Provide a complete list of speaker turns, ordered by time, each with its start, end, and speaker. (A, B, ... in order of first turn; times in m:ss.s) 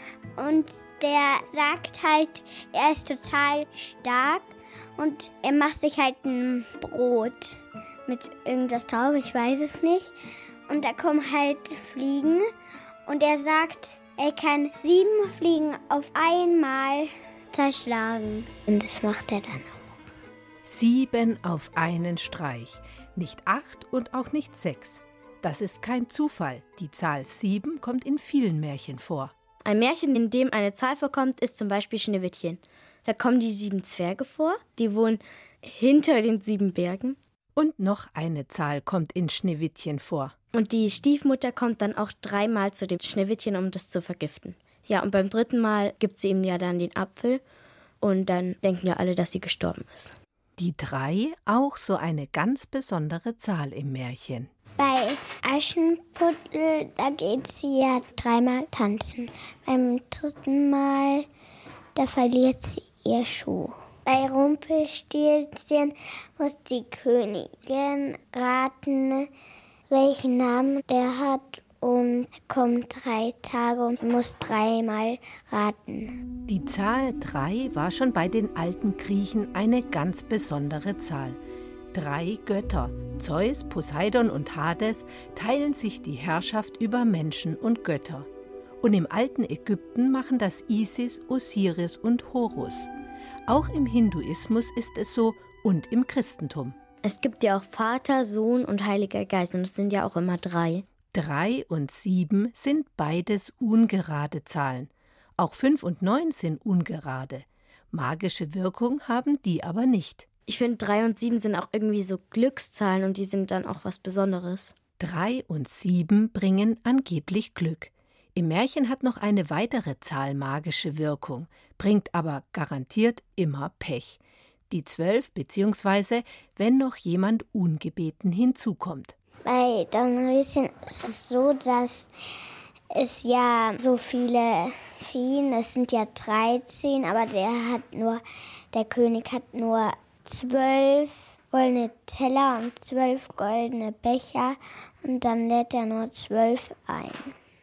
0:00.4-0:10.1 A
0:10.7-0:12.5 A
0:13.1-0:19.8 A
0:20.6-0:29.3 B
0:29.6-0:37.2 C
0:37.6-0:40.4 B
0:40.5-0:47.4 C
0:48.0-0:50.1 C
0:50.6-0:54.5 B
0:54.8-1:01.3 A
1:02.0-1:09.3 A
1:09.9-1:16.2 A
1:16.5-1:21.4 B
1:21.9-1:28.3 B
1:28.8-1:32.9 B
1:33.5-1:36.8 B
1:37.0-1:40.8 C
1:41.1-1:50.3 B
1:50.5-1:54.7 C
1:55.0-2:04.2 B
2:04.7-2:09.2 B
2:09.4-2:12.1 A
2:12.9-2:27.4 A